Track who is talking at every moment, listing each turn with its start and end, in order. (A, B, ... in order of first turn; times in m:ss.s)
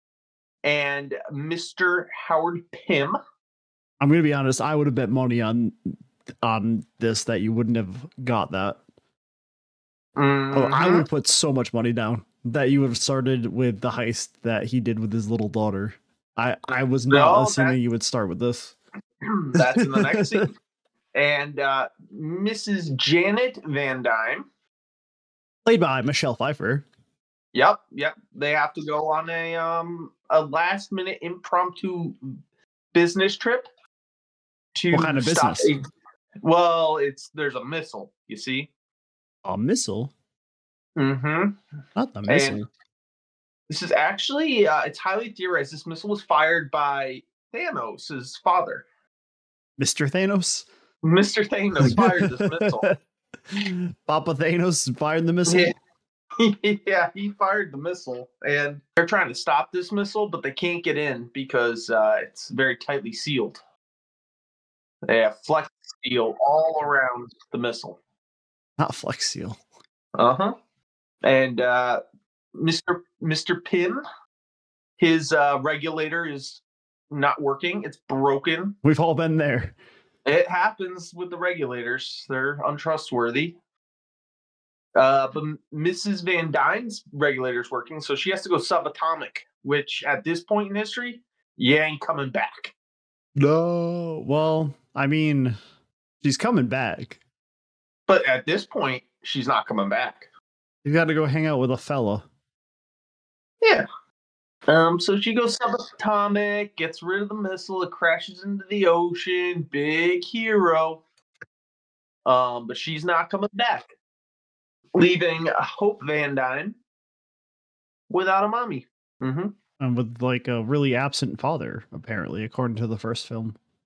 0:00.6-0:03.2 A
0:04.0-0:08.8 B
0:10.2-0:11.1 A
0:10.5-0:18.8 B
0:17.1-0:17.8 A
0:19.2-0:20.5 A
0:19.6-0:20.5 B
0:21.2-0:24.5 A
0:25.6-0:26.8 B
0:27.5-0:32.3 A
0:32.9-0:33.7 A
0:34.8-0:35.8 A
0:34.9-0:35.7 B
0:36.4-0:38.7 A
0:39.4-0:40.1 B
0:41.0-0:41.6 A
0:42.0-0:42.7 B
0:42.3-0:42.6 A
0:43.7-0:48.8 A
0:49.8-0:50.7 B
0:51.0-0:52.9 A
0:51.8-0:52.9 B
0:53.5-0:55.7 B
0:55.5-0:55.7 A
0:56.4-1:03.6 A
1:05.0-1:08.0 A
1:08.8-1:09.6 B
1:10.2-1:10.6 A
1:11.2-1:12.0 A
1:12.5-1:14.0 A
1:15.0-1:18.8 A
1:18.8-1:19.8 B
1:20.2-1:23.6 A
1:25.0-1:32.7 A
1:33.4-1:35.6 B
1:36.2-1:37.2 B
1:38.1-1:40.3 A
1:40.8-1:42.2 B
1:44.7-1:51.0 A
1:52.3-1:53.9 A
1:55.0-1:56.8 A
1:58.1-1:59.5 A
1:59.8-2:03.6 B